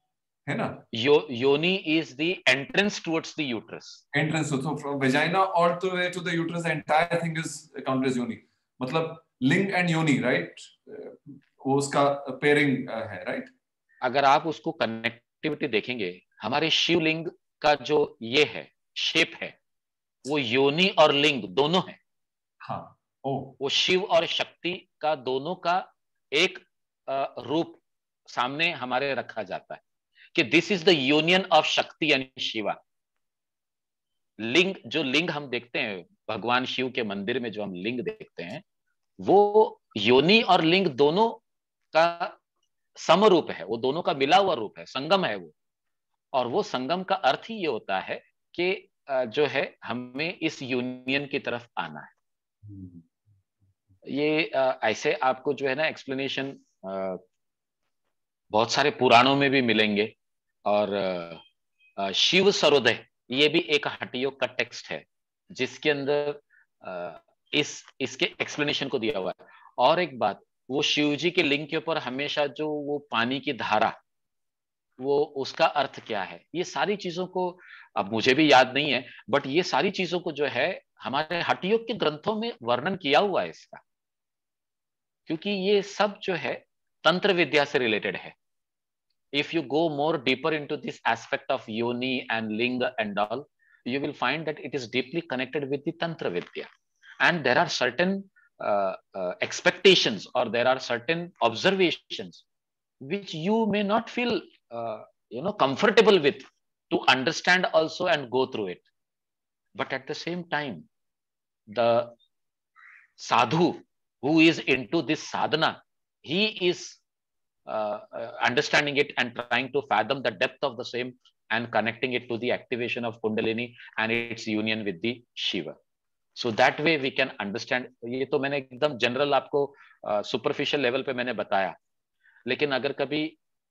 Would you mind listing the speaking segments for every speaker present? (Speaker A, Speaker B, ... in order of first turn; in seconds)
Speaker A: 0.5-0.8, 4.1-13.5, 22.6-23.6, 52.6-53.0
Speaker B: 0.9-4.0, 14.0-19.6, 20.2-22.0, 23.6-29.8, 30.3-32.8, 34.4-38.6, 39.2-41.4, 41.9-42.4, 43.0-45.5, 46.3-52.1, 54.1-57.2, 58.5-60.1, 60.6-61.4, 62.0-74.0, 75.0-83.8, 85.3-88.3, 89.3-96.7, 97.2-102.4, 103.0-108.8, 109.8-110.8, 111.7-112.2, 113.2-117.0, 117.7-125.8, 126.3-131.8, 132.4-133.4